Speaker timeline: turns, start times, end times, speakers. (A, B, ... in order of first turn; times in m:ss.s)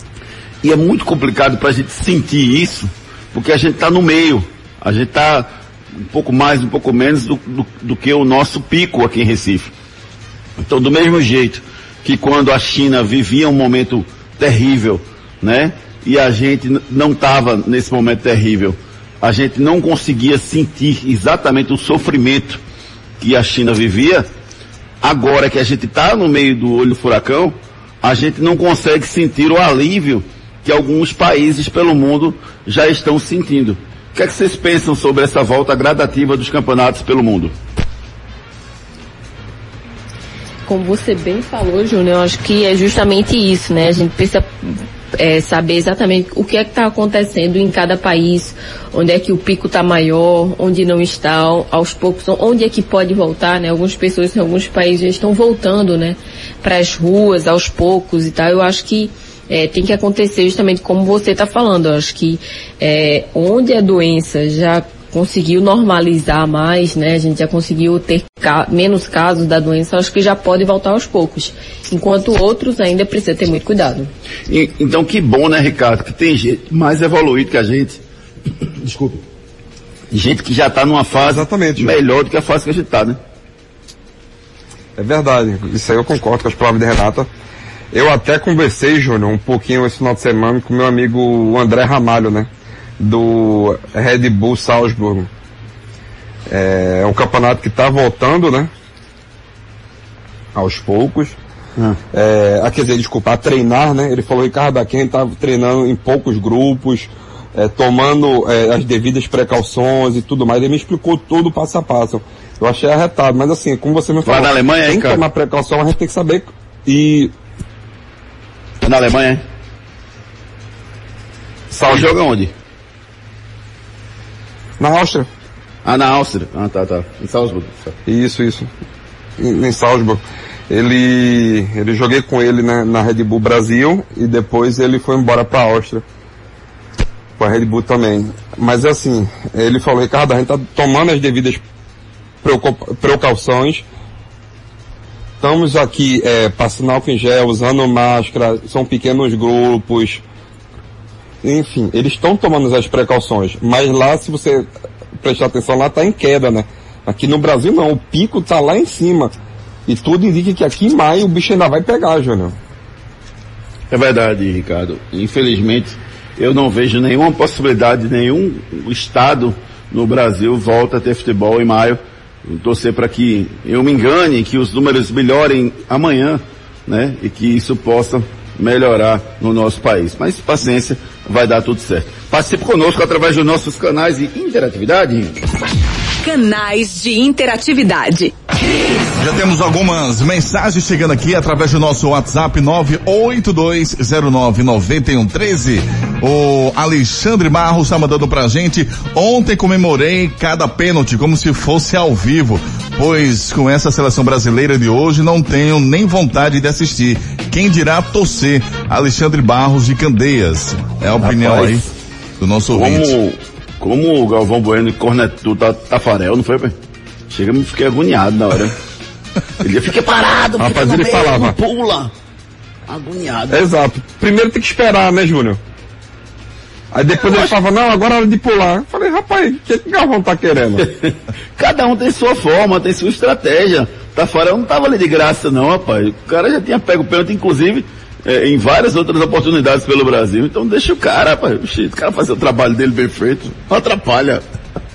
0:00.6-0:05.5 A
0:06.1-0:09.7 A
0:10.6-0:22.6 A
0:23.2-0:24.3 A
0:25.0-0:37.5 A
0:40.7-1:14.1 B
1:14.5-1:18.0 A
1:18.8-1:19.2 A
1:20.1-1:23.2 A
1:21.2-1:22.0 C
1:25.0-1:27.3 C
1:27.9-1:35.3 C
1:36.5-1:38.7 C
1:40.6-1:41.4 C
1:42.1-1:57.3 C
1:54.2-1:55.2 A
1:58.8-1:59.4 A
2:01.7-2:02.1 C
2:01.8-2:02.5 A
2:04.8-2:05.3 C
2:05.8-2:08.0 A
2:08.1-2:08.7 C
2:09.4-2:16.0 C
2:17.4-2:21.6 C
2:22.4-2:23.9 C
2:25.4-2:30.2 C
2:31.4-2:34.7 C
2:35.2-2:39.3 C
2:39.9-2:42.6 C
2:43.9-3:05.4 A
3:06.2-3:08.3 D
3:09.2-3:31.9 E
3:31.2-3:31.9 A
3:32.4-3:33.1 E
3:32.7-3:36.8 A
3:37.3-3:38.8 A
3:39.6-3:42.1 A
3:40.6-3:41.6 C
3:42.9-3:43.6 A
3:43.5-3:45.6 C
3:46.9-3:50.9 C
3:47.2-3:47.5 A
3:50.8-4:04.4 A